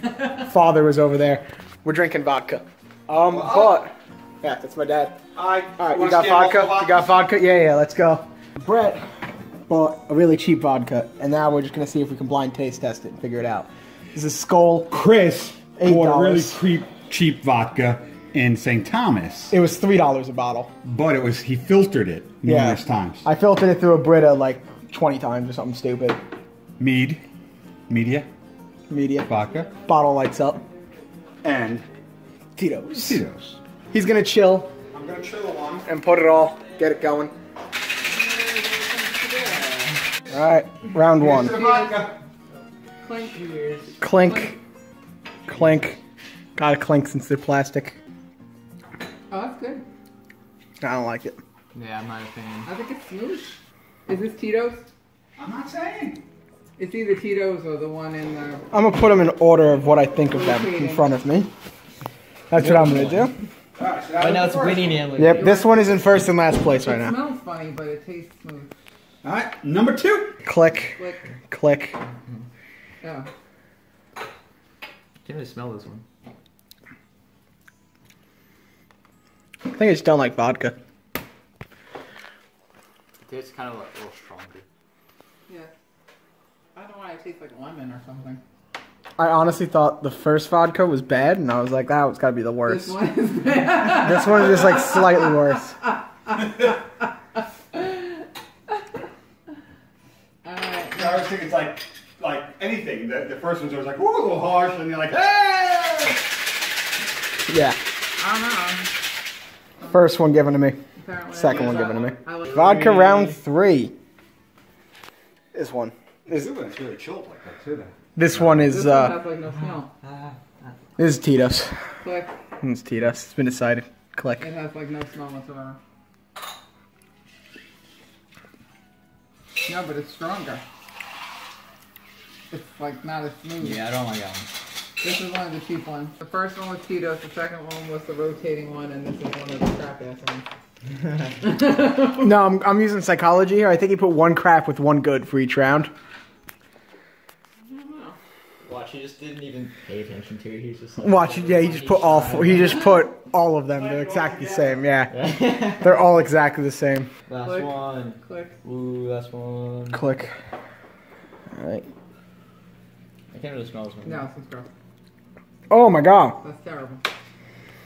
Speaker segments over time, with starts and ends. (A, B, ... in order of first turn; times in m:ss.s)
0:00.4-0:03.9 A
0:03.3-0:03.8 B
0:04.4-0:05.2 A
0:05.3-0:07.1 B
0:05.8-0:09.0 A
0:09.7-0:15.0 A
0:14.9-0:19.5 B
0:15.8-0:16.6 A
0:19.5-0:20.7 A
0:20.8-0:23.2 B
0:22.4-0:26.2 A
0:26.8-0:27.2 B
0:27.9-0:28.3 B
0:28.9-0:30.6 A
0:29.2-0:29.7 B
0:31.4-0:31.8 B
0:32.6-0:33.2 A
0:33.0-0:33.6 B
0:33.9-0:34.7 A
0:34.9-0:35.9 B
0:35.8-0:37.3 A
0:38.0-0:40.0 C
0:40.3-0:41.6 A
0:41.2-0:42.1 B
0:41.4-0:42.1 C
0:43.0-0:43.4 C
0:43.1-0:43.9 D
0:44.0-0:44.6 A
0:44.2-0:44.6 C
0:45.4-0:46.0 A
0:46.6-0:48.0 A
0:49.3-0:49.8 C
0:50.8-0:51.4 A
0:51.7-0:52.7 D
0:52.6-0:54.8 C
0:55.4-0:56.2 B
0:56.8-0:58.7 C
0:58.7-1:01.5 A
1:00.2-1:01.1 C
1:02.5-1:03.3 A
1:02.5-1:03.3 D
1:03.8-1:05.1 B
1:04.2-1:05.6 D
1:05.2-1:07.2 A
1:05.2-1:08.7 C
1:09.2-1:10.4 B
1:10.4-1:12.0 A
1:11.0-1:11.2 C
1:13.0-1:13.3 C
1:15.2-1:16.0 D
1:19.7-1:20.8 A
1:23.2-1:24.6 D
1:25.5-1:25.7 C
1:26.7-1:28.4 C
1:29.2-1:33.0 A
1:32.6-1:35.3 C
1:33.9-1:35.7 A
1:37.7-1:38.1 C
1:40.4-1:41.2 C
1:40.9-1:46.2 B
1:47.5-1:47.8 A
1:48.2-1:48.9 C
1:49.9-1:50.8 A
1:51.0-1:52.8 C
1:51.3-1:53.9 A
1:52.5-1:53.4 D
1:55.5-1:56.5 A
1:56.3-1:57.9 B
1:58.2-1:59.2 A
1:58.3-1:58.6 D
1:58.6-1:59.9 C
2:00.0-2:00.4 D
2:01.0-2:01.8 A
2:02.0-2:02.3 C
2:02.6-2:04.4 A
2:04.4-2:05.8 C
2:09.6-2:10.6 C
2:12.5-2:13.8 C
2:13.6-2:14.5 D
2:15.0-2:20.4 C
2:21.4-2:22.3 C
2:22.2-2:25.9 A
2:27.6-2:28.1 C
2:28.6-2:33.0 D
2:31.0-2:35.2 A
2:33.8-2:34.8 B
2:35.1-2:35.9 D
2:35.8-2:37.1 A
2:37.3-2:40.0 D
2:37.4-2:38.5 C
2:39.9-2:40.3 A
2:41.5-2:41.8 A
2:43.3-2:44.2 D
2:44.0-2:44.7 C
2:45.7-2:46.4 A
2:46.4-2:47.0 C